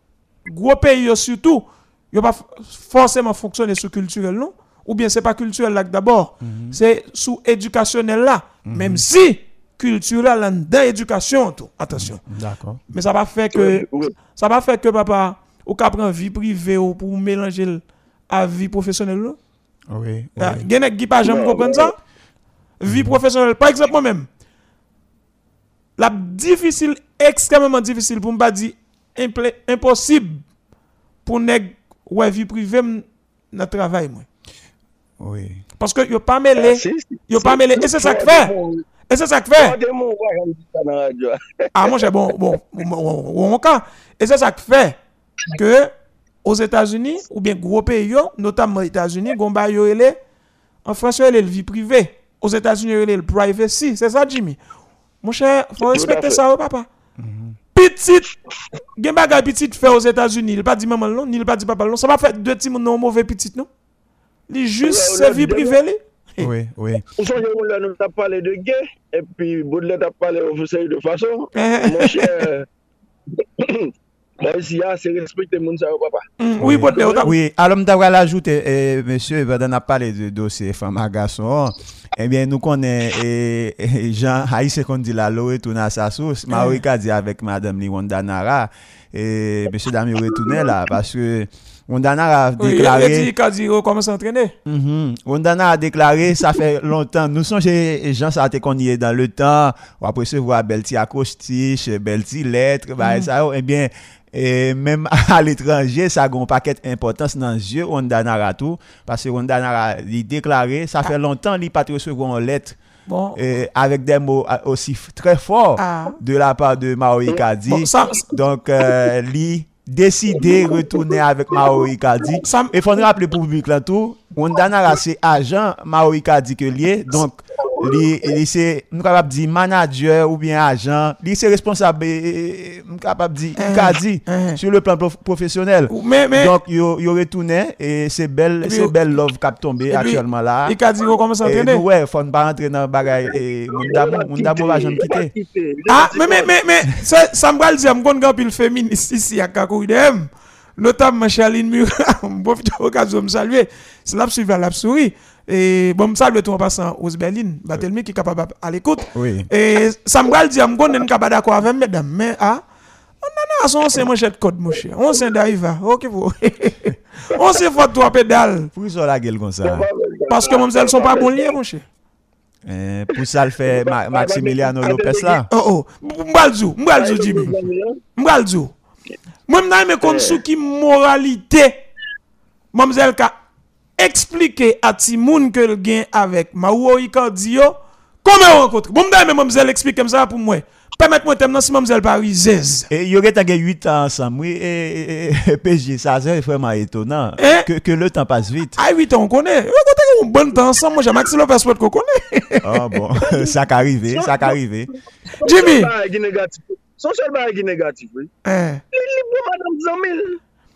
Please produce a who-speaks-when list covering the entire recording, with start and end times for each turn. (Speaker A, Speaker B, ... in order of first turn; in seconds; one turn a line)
Speaker A: 0.5-12.2
Speaker B: 6.4-6.8
Speaker B: 8.7-9.0
Speaker B: 11.9-12.8
Speaker A: 12.9-19.4
Speaker C: 13.5-14.1
Speaker B: 19.9-20.7
Speaker A: 20.4-22.0
Speaker C: 21.2-21.9
Speaker A: 22.8-24.3
Speaker A: 26.0-30.4
Speaker A: 31.2-34.3
Speaker B: 35.2-35.6
Speaker A: 35.8-38.5
Speaker C: 36.6-38.9
Speaker A: 39.1-39.8
Speaker C: 39.5-42.0
Speaker A: 41.8-45.0
Speaker A: 45.5-45.9
Speaker A: 46.4-50.2
Speaker A: 50.9-54.6
Speaker A: 55.2-56.9
Speaker C: 55.8-56.4
Speaker B: 57.2-57.6
Speaker A: 57.8-58.3
Speaker A: 59.0-63.7
Speaker A: 64.5-66.5
Speaker C: 64.8-65.8
Speaker B: 66.4-67.1
Speaker C: 67.2-72.7
Speaker A: 71.6-72.3
Speaker C: 73.4-76.3
Speaker A: 76.4-77.4
Speaker B: 76.6-93.3
Speaker C: 76.9-77.2
Speaker A: 86.5-86.8
Speaker A: 92.6-94.5
Speaker B: 94.7-112.8
Speaker A: 103.0-103.3
Speaker A: 113.1-113.4
Speaker B: 113.4-140.8
Speaker A: 115.8-116.2
Speaker A: 117.7-118.3
Speaker C: 120.4-121.9
Speaker A: 122.4-122.8
Speaker A: 133.6-134.6
Speaker A: 135.9-136.6
Speaker A: 138.6-138.9
Speaker A: 139.9-141.8
Speaker B: 141.4-145.3
Speaker C: 143.7-146.5
Speaker A: 145.9-162.6
Speaker B: 159.1-159.5
Speaker A: 163.2-168.7
Speaker B: 168.8-169.9
Speaker C: 169.6-171.5
Speaker A: 170.3-171.9
Speaker B: 172.7-175.5
Speaker C: 173.7-175.4
Speaker A: 175.5-177.5
Speaker C: 177.0-178.0
Speaker A: 178.2-178.7
Speaker A: 179.5-181.8
Speaker C: 180.0-180.4
Speaker A: 182.7-183.3
Speaker A: 184.0-192.9
Speaker B: 192.9-198.8
Speaker A: 197.4-197.7
Speaker A: 198.8-202.9
Speaker B: 202.6-204.9
Speaker C: 203.2-203.5
Speaker C: 204.1-204.5
Speaker C: 205.3-208.3
Speaker A: 205.4-205.9
Speaker A: 208.4-208.8
Speaker C: 208.9-210.4